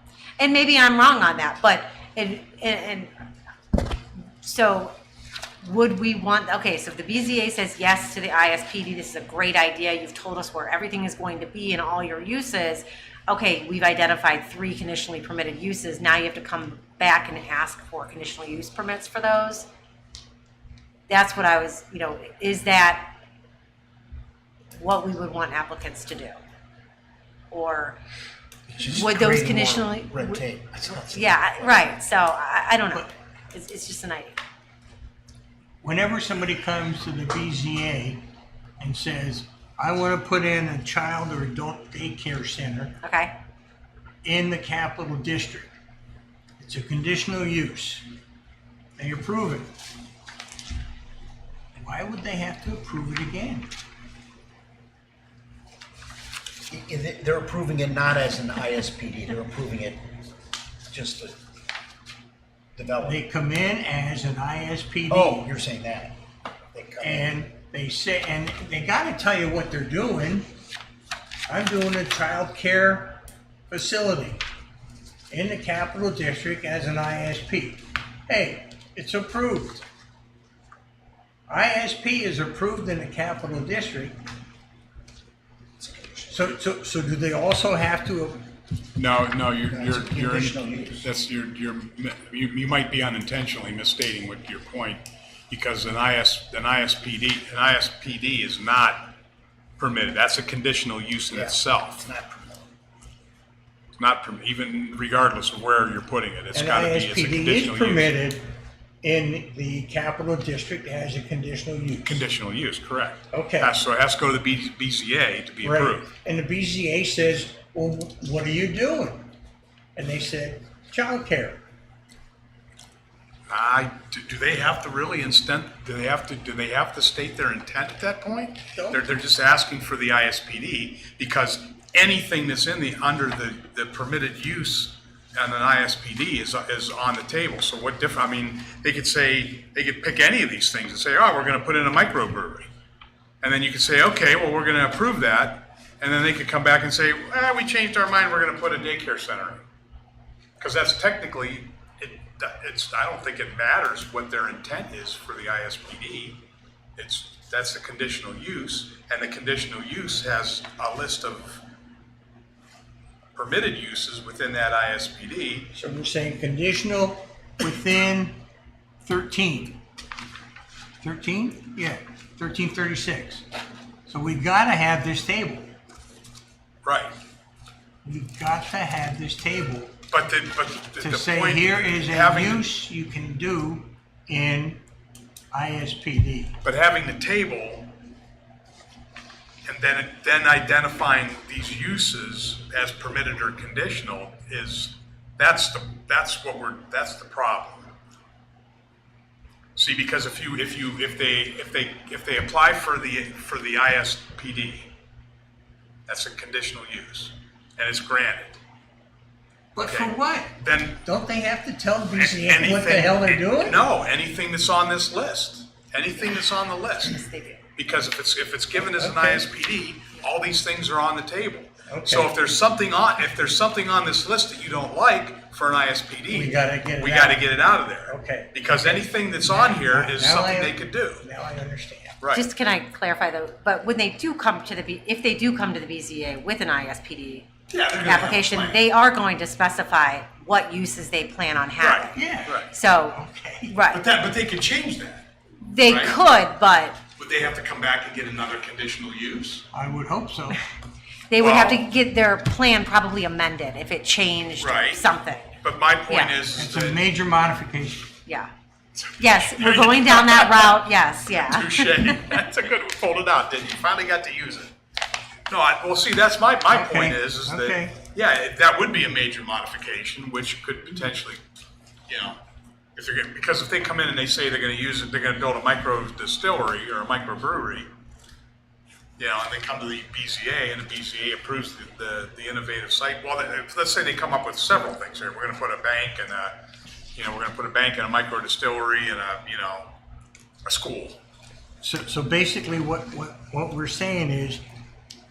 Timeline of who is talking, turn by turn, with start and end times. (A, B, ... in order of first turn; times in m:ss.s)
0:00.4-0:03.1 A
0:04.4-0:04.9 A
0:05.6-0:19.7 A
0:21.1-0:23.1 A
0:24.7-0:26.4 A
0:27.5-0:28.0 A
0:28.7-0:31.8 B
0:28.8-0:30.4 A
0:31.0-0:34.4 A
0:35.8-0:38.2 C
0:38.8-0:43.0 C
0:43.0-0:43.3 A
0:44.2-0:45.7 C
0:46.6-0:48.0 C
0:49.0-0:49.7 C
0:51.7-0:53.7 C
0:56.7-1:00.1 B
1:00.9-1:01.3 B
1:02.8-1:03.2 B
1:03.0-1:05.5 C
1:05.1-1:06.2 B
1:06.7-1:07.3 B
1:07.0-1:10.5 C
1:11.5-1:14.4 C
1:15.3-1:19.8 C
1:21.5-1:24.2 C
1:25.8-1:26.4 B
1:26.3-1:28.4 C
1:28.9-1:39.1 D
1:29.7-1:31.1 B
1:39.8-1:42.0 D
1:41.3-1:42.7 B
1:44.0-1:48.1 D
1:46.5-1:48.5 C
1:49.0-1:52.2 C
1:52.0-1:56.0 D
1:53.3-1:53.7 C
1:55.6-1:59.2 C
2:00.0-2:01.6 C
2:03.5-2:22.7 D
2:08.7-2:09.0 C
2:23.4-2:29.6 D
2:30.6-2:36.4 D
2:37.0-2:41.6 D
2:43.3-2:45.7 D
2:45.7-2:48.4 C
2:49.0-2:49.8 C
2:51.0-2:53.4 C
2:54.1-2:55.7 C
2:56.8-2:57.1 D
2:58.0-3:00.0 C
3:00.1-3:02.7 D
3:01.0-3:04.8 C
3:05.5-3:06.6 C
3:06.6-3:07.9 D
3:09.6-3:17.9 D
3:19.8-3:24.9 D
3:26.1-3:28.6 D
3:29.7-3:33.8 C
3:29.8-3:31.0 D
3:32.1-3:37.2 D
3:37.0-3:37.6 A
3:37.8-3:51.2 D
3:38.7-3:39.4 C
3:41.9-3:42.3 C
3:46.3-3:52.2 C
3:52.3-3:57.5 A
3:57.7-3:58.8 D
3:58.0-4:04.0 A
4:01.8-4:02.7 D
4:02.1-4:03.8 C
4:03.9-4:05.3 D
4:05.6-4:07.0 A
4:05.8-4:06.2 D
4:07.2-4:09.6 D
4:09.7-4:10.6 C
4:11.3-4:15.6 A
4:11.4-4:11.9 D
4:14.6-4:15.0 D
4:15.6-4:17.0 D
4:16.1-4:16.4 A
4:16.5-4:18.1 C
4:18.2-4:18.5 A
4:19.0-4:24.7 D
4:19.2-4:22.4 A
4:25.5-4:31.4 D
4:26.7-4:28.0 C
4:32.1-4:32.4 D
4:33.0-4:37.9 D
4:39.2-4:46.6 D
4:47.1-4:49.9 D
4:50.6-4:51.2 D
4:51.8-4:54.6 C